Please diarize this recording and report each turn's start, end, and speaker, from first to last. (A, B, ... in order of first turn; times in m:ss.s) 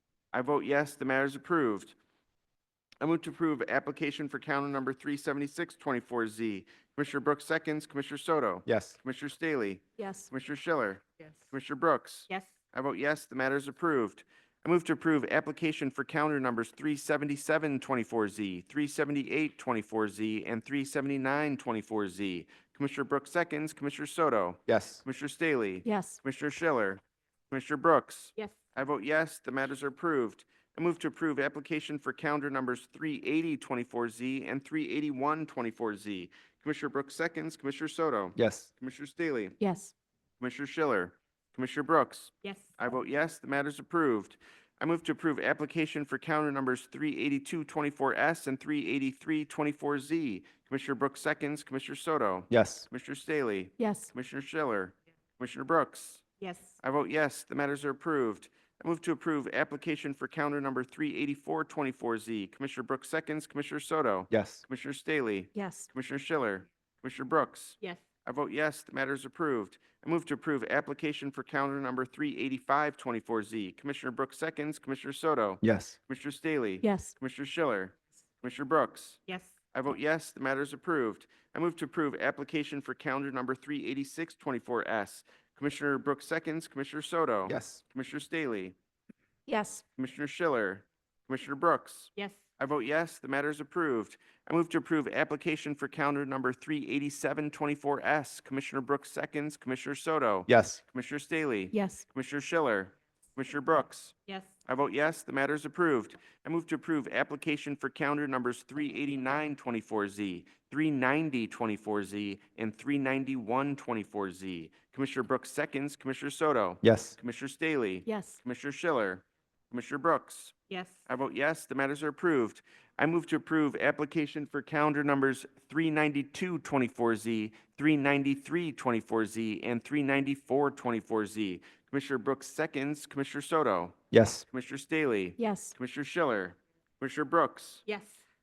0:00.3-0:02.0 A
0:03.0-0:39.6 A
0:08.7-0:09.0 B
0:10.0-0:10.3 C
0:24.7-0:25.0 B
0:25.8-0:26.2 C
0:38.4-0:38.7 B
0:39.6-0:39.9 C
0:40.4-0:56.2 A
0:42.4-0:42.7 D
0:52.5-0:52.9 B
0:53.8-0:54.1 C
0:56.4-0:56.8 D
0:56.8-1:19.2 A
1:04.3-1:04.6 B
1:05.5-1:05.9 C
1:15.6-1:16.0 B
1:16.8-1:17.1 C
1:19.3-1:19.6 D
1:19.7-1:28.8 A
1:27.5-1:27.8 B
1:29.5-1:29.8 C
1:30.0-2:00.6 A
1:32.2-1:32.4 D
1:40.5-1:40.8 B
1:41.7-1:42.1 C
1:44.3-1:44.5 D
1:56.8-1:57.2 B
1:58.0-1:58.4 C
2:00.7-2:01.0 D
2:01.0-2:14.0 A
2:14.1-2:14.4 B
2:14.5-2:17.8 A
2:15.4-2:15.8 C
2:17.9-2:18.2 D